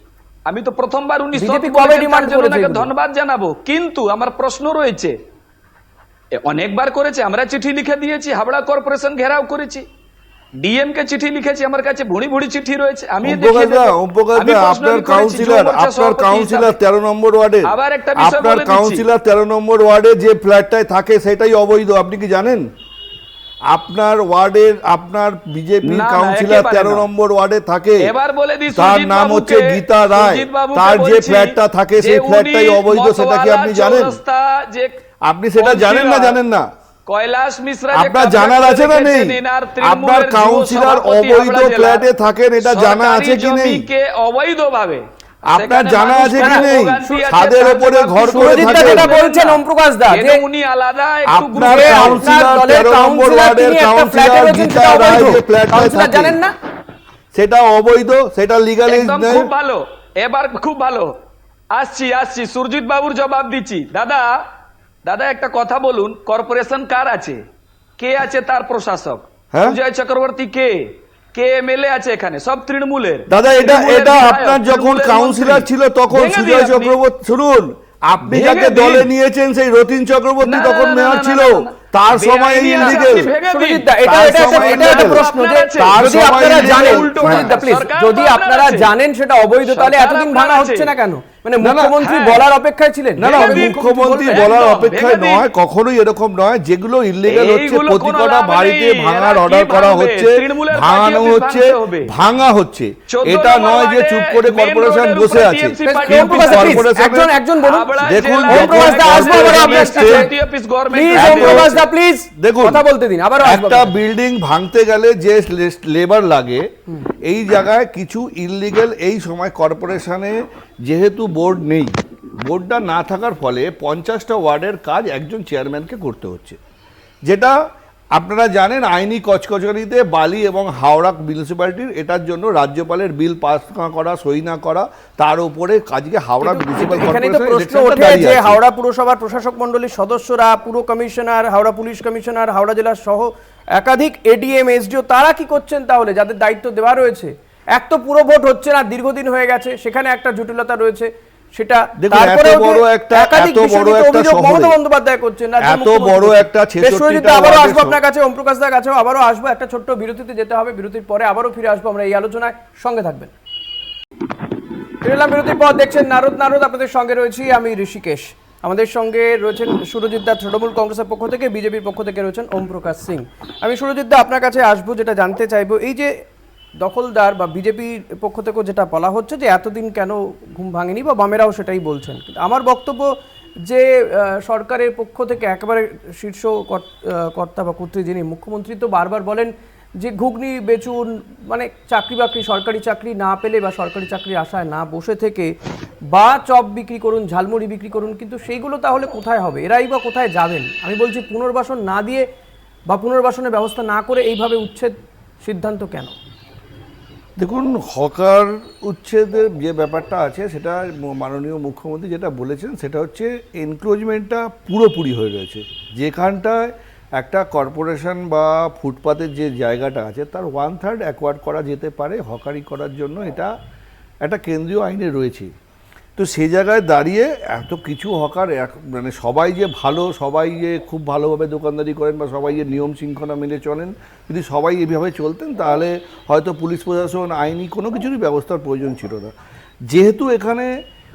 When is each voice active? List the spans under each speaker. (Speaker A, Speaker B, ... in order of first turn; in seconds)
Speaker A: 0.5-5.2, 6.4-9.8, 10.6-16.8, 17.7-19.1, 25.9-27.1, 28.0-35.0, 35.6-36.4, 37.1-42.1, 42.6-45.0, 45.5-52.2, 58.9-61.2, 61.7-64.4, 65.0-67.4, 68.0-77.0, 78.2-79.1, 80.4-88.9, 89.6-90.9, 91.7-92.4, 93.2-93.8, 94.3-95.5, 97.3-102.1, 103.1-106.9, 107.6-111.9
Speaker B: 1.4-2.9, 46.4-47.2, 48.3-50.4, 51.6-56.5, 82.8-94.5, 105.8-110.3, 110.9-113.9, 136.4-163.3, 165.0-176.1, 176.8-195.5, 196.1-202.3, 202.9-206.2
Speaker C: 13.2-22.7, 23.7-28.1, 28.7-34.2, 35.2-36.7, 37.9-43.9, 45.5-49.1, 51.3-56.4, 57.3-59.5, 73.3-83.3, 84.0-87.6, 93.2-107.3, 108.0-110.3, 111.1-111.8, 112.4-112.8, 113.4-116.7, 117.2-126.6, 127.3-127.5, 128.2-138.6, 152.0-154.8, 155.6-158.0, 207.4-223.5, 224.2-225.5, 226.2-239.3, 239.9-240.7